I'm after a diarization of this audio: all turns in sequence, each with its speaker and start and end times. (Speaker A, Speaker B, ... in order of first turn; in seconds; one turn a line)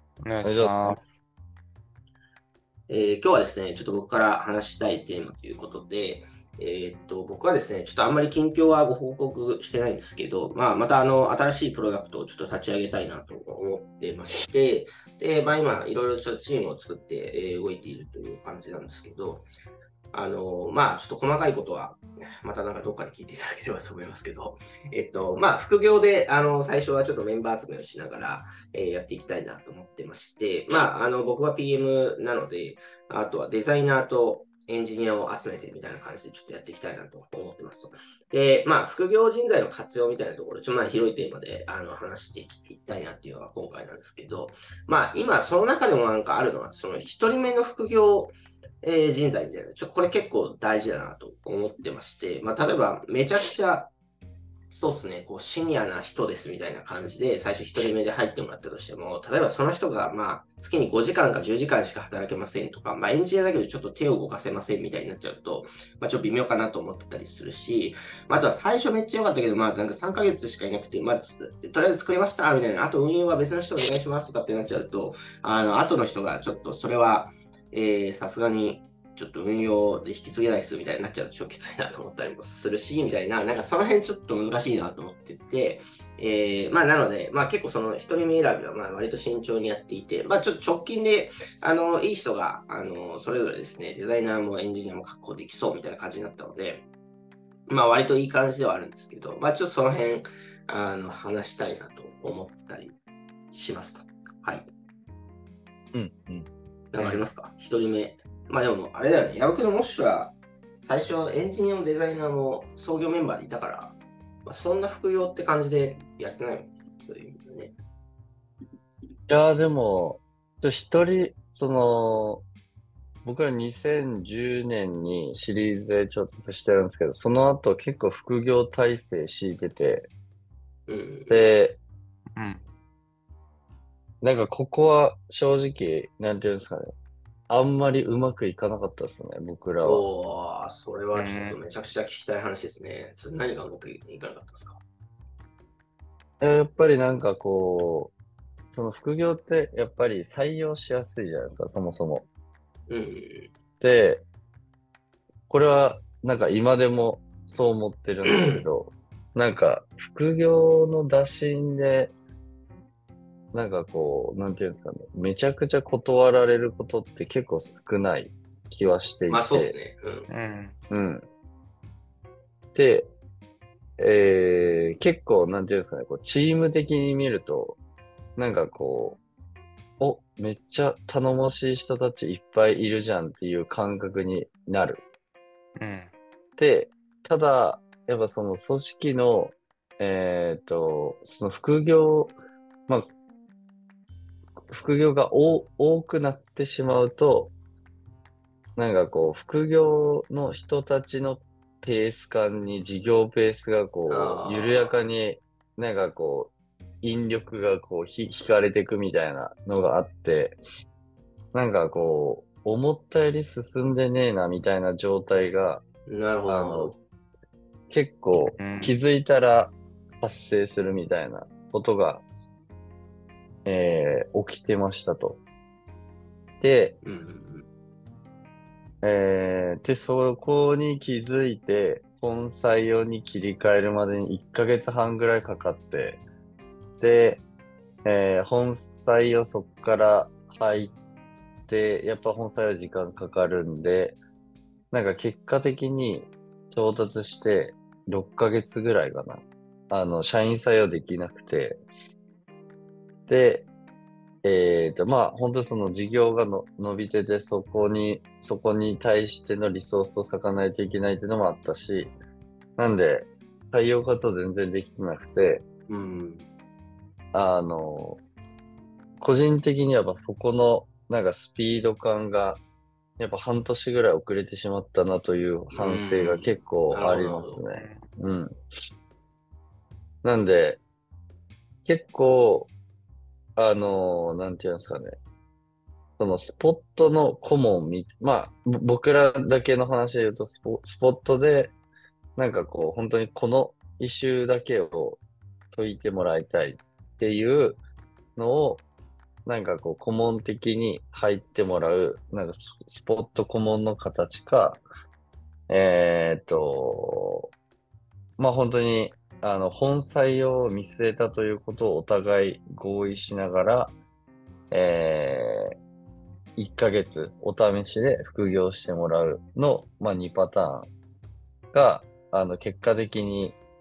Speaker A: 0.2-1.2
Speaker B: 0.4-1.0
Speaker C: 2.9-19.5
Speaker C: 20.1-53.9
Speaker C: 54.7-96.9
Speaker C: 97.7-103.0
Speaker C: 103.5-104.7
Speaker B: 105.9-106.5
Speaker C: 106.9-117.8
Speaker A: 107.0-107.2
Speaker B: 119.3-122.5
Speaker B: 123.2-130.1
Speaker C: 130.9-131.5
Speaker B: 131.3-131.8
Speaker A: 132.4-132.6
Speaker B: 134.2-136.9
Speaker B: 137.5-140.0
Speaker C: 139.8-144.8
Speaker A: 141.1-141.6
Speaker B: 146.4-148.1
Speaker B: 148.7-152.3
Speaker C: 152.9-153.5
Speaker B: 153.8-154.2
Speaker B: 155.5-162.1
Speaker C: 158.2-158.6
Speaker B: 163.5-169.8
Speaker C: 169.3-170.3
Speaker A: 170.3-170.8
Speaker B: 170.9-171.2
Speaker B: 172.7-173.1
Speaker B: 174.0-177.8
Speaker B: 178.4-179.2
Speaker B: 180.0-185.0
Speaker A: 185.8-186.1
Speaker B: 186.6-192.4
Speaker B: 194.7-197.5
Speaker B: 198.8-210.6
Speaker C: 204.1-205.0
Speaker B: 211.5-215.8
Speaker C: 216.1-217.0
Speaker B: 216.5-217.0
Speaker B: 217.9-222.2
Speaker A: 218.5-218.9
Speaker B: 223.7-225.4
Speaker B: 226.6-227.0
Speaker C: 227.0-227.7
Speaker B: 229.0-236.2
Speaker B: 237.0-237.4
Speaker B: 238.1-240.9
Speaker B: 241.7-244.2
Speaker B: 244.9-251.8
Speaker B: 253.3-253.7
Speaker B: 254.4-262.1
Speaker B: 262.8-265.6
Speaker C: 265.9-266.5
Speaker B: 267.3-268.2
Speaker B: 269.2-272.6
Speaker B: 273.2-278.6
Speaker C: 275.7-277.6
Speaker A: 277.7-278.0
Speaker B: 280.2-280.8
Speaker B: 281.9-282.7
Speaker B: 283.6-285.2
Speaker B: 286.2-291.8
Speaker B: 292.4-295.2
Speaker B: 295.7-297.8
Speaker B: 298.4-298.8
Speaker B: 299.5-304.8
Speaker B: 305.7-307.5
Speaker B: 308.4-313.9
Speaker B: 314.7-315.7
Speaker B: 316.6-320.9
Speaker B: 321.7-323.6